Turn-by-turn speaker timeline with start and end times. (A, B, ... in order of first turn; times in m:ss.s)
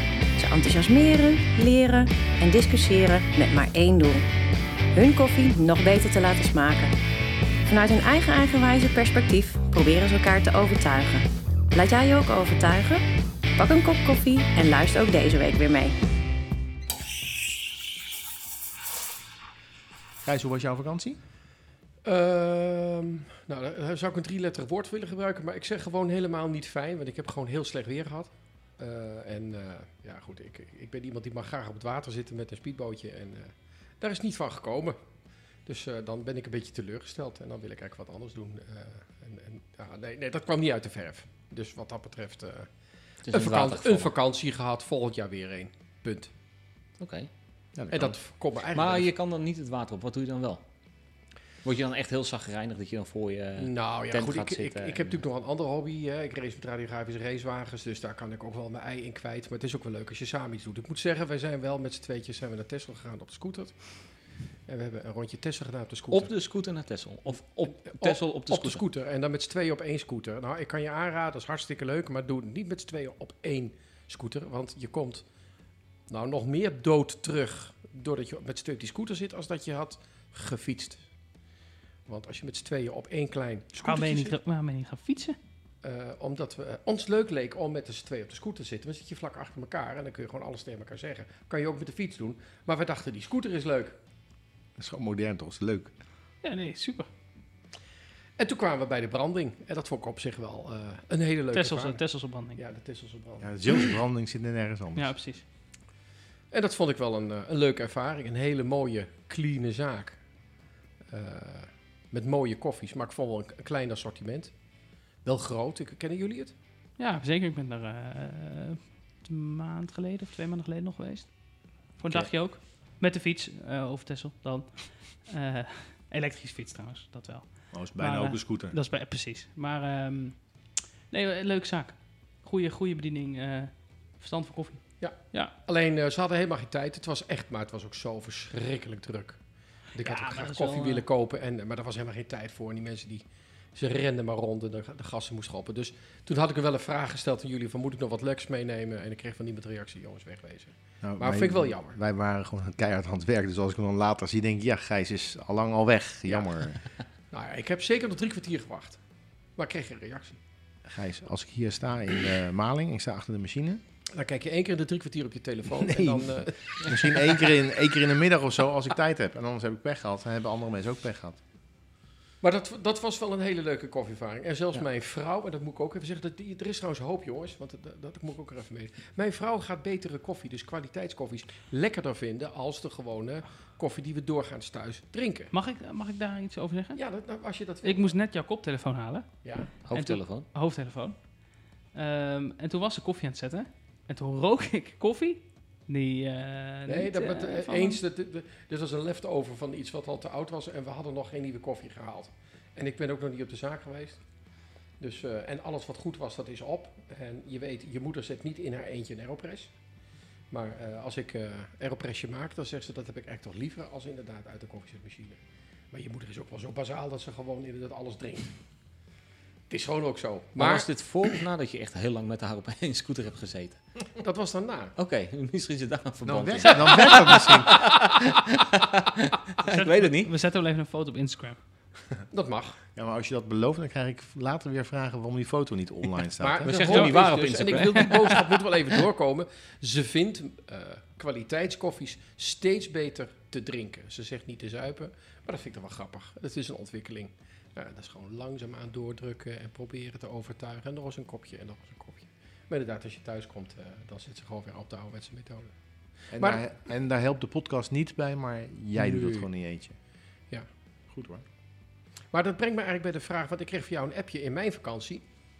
0:00.4-0:04.2 A
0:05.0-0:06.9 A
0:07.7-0:13.0 A
0:13.6-0:16.0 A
0:20.2-0:21.2 B
0:22.0-0:35.0 C
0:35.7-0:42.7 C
0:43.2-0:44.1 D
0:43.3-0:46.3 C
0:47.0-0:47.3 D
0:47.8-0:48.2 B
0:47.9-0:49.1 C
0:48.7-0:50.6 D
0:51.6-0:55.2 D
0:53.6-1:03.8 C
1:04.7-1:06.3 C
1:06.1-1:08.8 D
1:07.9-1:15.2 C
1:16.1-1:21.0 C
1:22.1-1:24.4 C
1:23.8-1:25.4 E
1:25.8-1:34.0 C
1:34.8-1:35.9 B
1:36.4-1:37.1 E
1:38.4-1:42.0 C
1:41.5-1:42.6 E
1:42.6-1:43.9 C
1:43.4-1:45.1 B
1:45.0-1:45.4 E
1:46.5-1:50.2 C
1:51.1-1:54.5 C
1:55.2-1:56.5 C
1:57.0-2:10.4 E
2:07.7-2:08.8 B
2:11.1-2:15.5 E
2:15.0-2:19.4 C
2:19.9-2:23.2 C
2:20.0-2:21.0 E
2:23.8-2:32.0 C
2:31.0-2:36.8 B
2:37.3-2:39.0 C
2:39.6-2:40.4 C
2:40.9-2:43.8 B
2:44.1-2:47.0 C
2:45.7-2:51.4 B
2:52.4-3:05.5 C
3:05.5-3:07.0 E
3:07.0-3:08.2 C
3:07.8-3:09.3 E
3:09.4-3:09.7 C
3:09.8-3:10.5 D
3:09.9-3:11.2 E
3:11.9-3:18.0 E
3:16.9-3:24.2 C
3:25.0-3:29.7 C
3:30.5-3:35.4 C
3:35.9-3:38.5 C
3:39.7-3:41.4 C
3:40.6-3:43.8 D
3:44.2-3:45.0 C
3:45.0-3:50.3 D
3:46.3-3:47.0 C
3:46.3-3:48.1 B
3:49.7-3:51.6 E
3:52.3-3:52.8 C
3:53.0-3:56.9 B
3:56.4-4:15.8 C
3:56.6-3:58.5 D
3:56.7-3:58.3 E
4:16.3-4:20.0 B
4:16.3-4:16.6 C
4:19.0-4:19.5 C
4:21.1-4:21.4 B
4:22.3-4:25.2 C